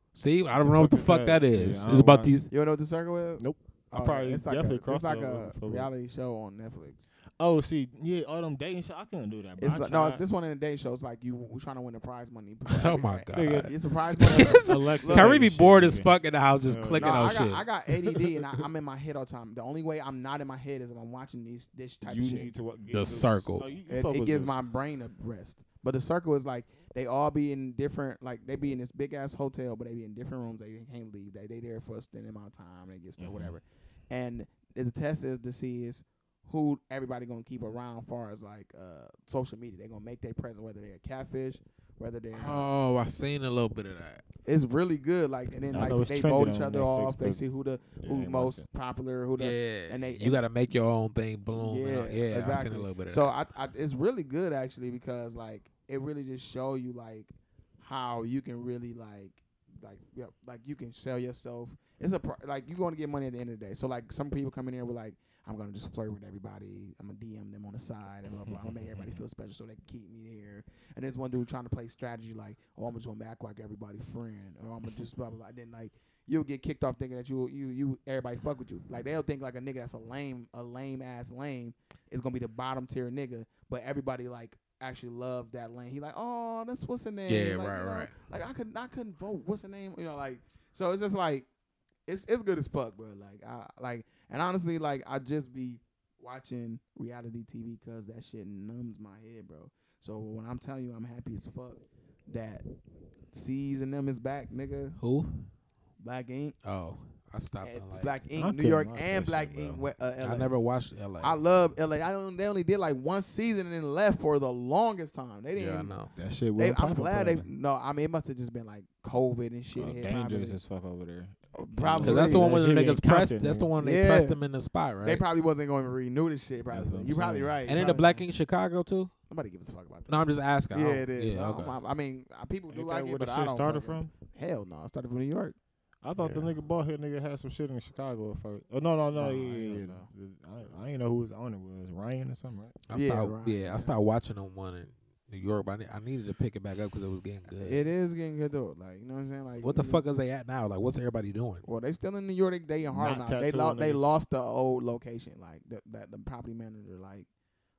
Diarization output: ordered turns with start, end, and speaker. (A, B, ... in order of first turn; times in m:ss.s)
0:00.1-0:02.5 A
0:00.5-0:02.5 B
0:02.5-0:07.0 C
0:03.4-0:05.9 B
0:07.4-0:10.2 B
0:09.6-0:15.4 C
0:12.7-0:17.6 A
0:13.3-0:17.5 B
0:17.0-0:22.5 C
0:22.0-0:24.6 B
0:22.9-0:23.6 A
0:23.9-0:42.7 C
0:33.2-0:33.6 B
0:42.3-0:44.2 A
0:44.4-0:50.4 C
0:45.7-0:47.4 B
0:48.0-0:48.7 B
0:49.4-0:53.3 A
0:51.5-1:31.4 C
1:08.4-1:09.2 B
1:27.3-1:28.1 A
1:32.1-1:42.6 C
1:43.3-1:45.0 C
1:45.0-1:45.5 A
1:46.0-1:46.6 C
1:46.6-1:48.2 A
1:47.6-1:50.6 C
1:48.4-1:49.8 B
1:50.2-1:51.4 A
1:51.2-1:55.9 C
1:55.6-1:56.1 A
1:56.1-1:57.5 B
1:56.6-2:00.6 C
1:59.7-2:03.7 B
2:01.5-2:02.6 C
2:02.0-2:05.2 A
2:03.8-2:04.4 C
2:05.0-2:08.2 C
2:06.7-2:07.6 B
2:07.7-2:09.1 A
2:09.3-2:15.6 C
2:10.1-2:11.8 A
2:12.7-2:14.1 B
2:16.0-2:22.8 B
2:16.2-2:16.5 A
2:19.1-2:20.1 C
2:22.9-2:27.8 A
2:22.9-2:24.0 C
2:27.5-2:30.0 C
2:29.6-2:31.6 A
2:31.6-2:37.3 C
2:32.9-2:34.1 B